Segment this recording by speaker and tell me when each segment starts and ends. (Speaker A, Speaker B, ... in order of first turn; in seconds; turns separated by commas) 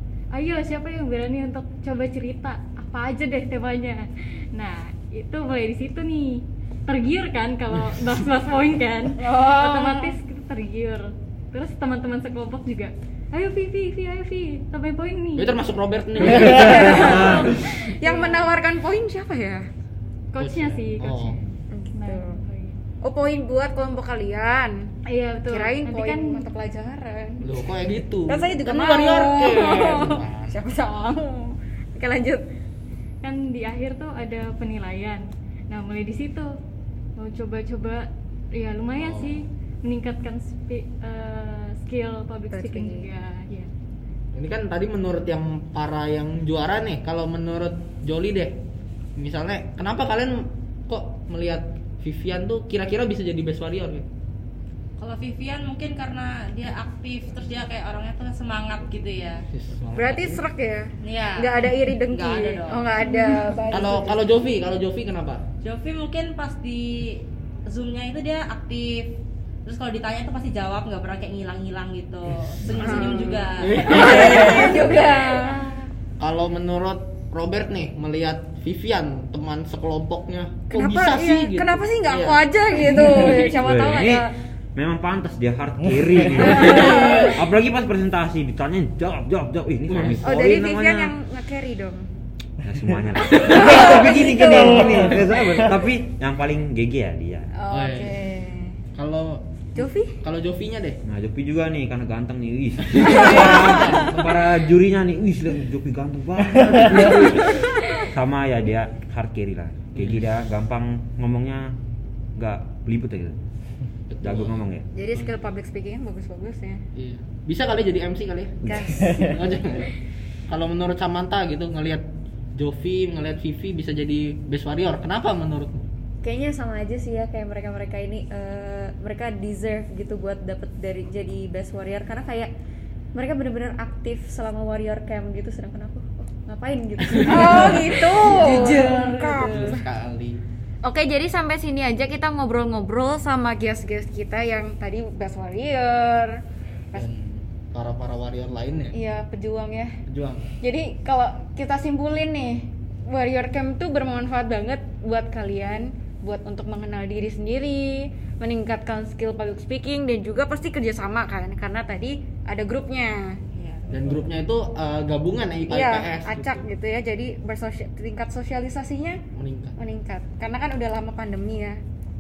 Speaker A: 0.3-15.6, Speaker B: 9.2-10.1, Speaker C: 15.4-17.2, Speaker A: 16.2-18.5, Speaker B: 16.2-19.6, Speaker A: 20.3-22.8, Speaker C: 20.4-21.4, Speaker B: 21.7-22.4, Speaker B: 23.0-24.8, Speaker A: 25.1-26.5, Speaker B: 25.5-27.7, Speaker C: 27.4-30.6, Speaker B: 28.3-32.4, Speaker A: 33.2-36.5, Speaker A: 37.2-43.7, Speaker C: 39.0-39.4, Speaker B: 42.5-43.1, Speaker C: 44.3-48.6, Speaker C: 49.2-54.1, Speaker D: 55.0-59.4, Speaker C: 59.5-60.4, Speaker B: 60.0-64.2, Speaker D: 61.0-62.9, Speaker C: 63.7-65.4, Speaker D: 65.6-75.9, Speaker C: 72.7-75.0, Speaker B: 72.7-75.6, Speaker C: 76.2-82.5, Speaker B: 80.7-84.3, Speaker E: 83.5-91.2, Speaker B: 86.5-87.3, Speaker C: 89.9-90.3, Speaker B: 90.2-92.0, Speaker E: 92.6-97.5, Speaker B: 93.3-95.2, Speaker B: 97.6-98.8, Speaker C: 97.7-98.2, Speaker C: 98.9-101.0, Speaker B: 99.8-100.2, Speaker E: 101.1-111.7, Speaker C: 102.9-104.5, Speaker B: 103.2-104.1, Speaker C: 109.9-110.3, Speaker E: 112.4-113.4, Speaker C: 114.1-115.3, Speaker E: 114.2-114.9, Speaker B: 114.9-116.8, Speaker C: 117.0-119.9, Speaker B: 118.7-119.4, Speaker C: 120.5-122.0, Speaker C: 122.5-125.8, Speaker F: 126.2-132.5, Speaker F: 133.1-139.8, Speaker C: 137.1-138.1, Speaker B: 137.2-139.8, Speaker C: 139.4-140.4, Speaker B: 140.8-146.4, Speaker C: 146.9-148.9, Speaker B: 148.9-149.9, Speaker C: 150.1-150.5, Speaker B: 150.6-163.4, Speaker D: 163.6-163.9, Speaker C: 163.9-166.7, Speaker B: 165.7-169.2, Speaker C: 169.3-169.8, Speaker B: 169.8-171.8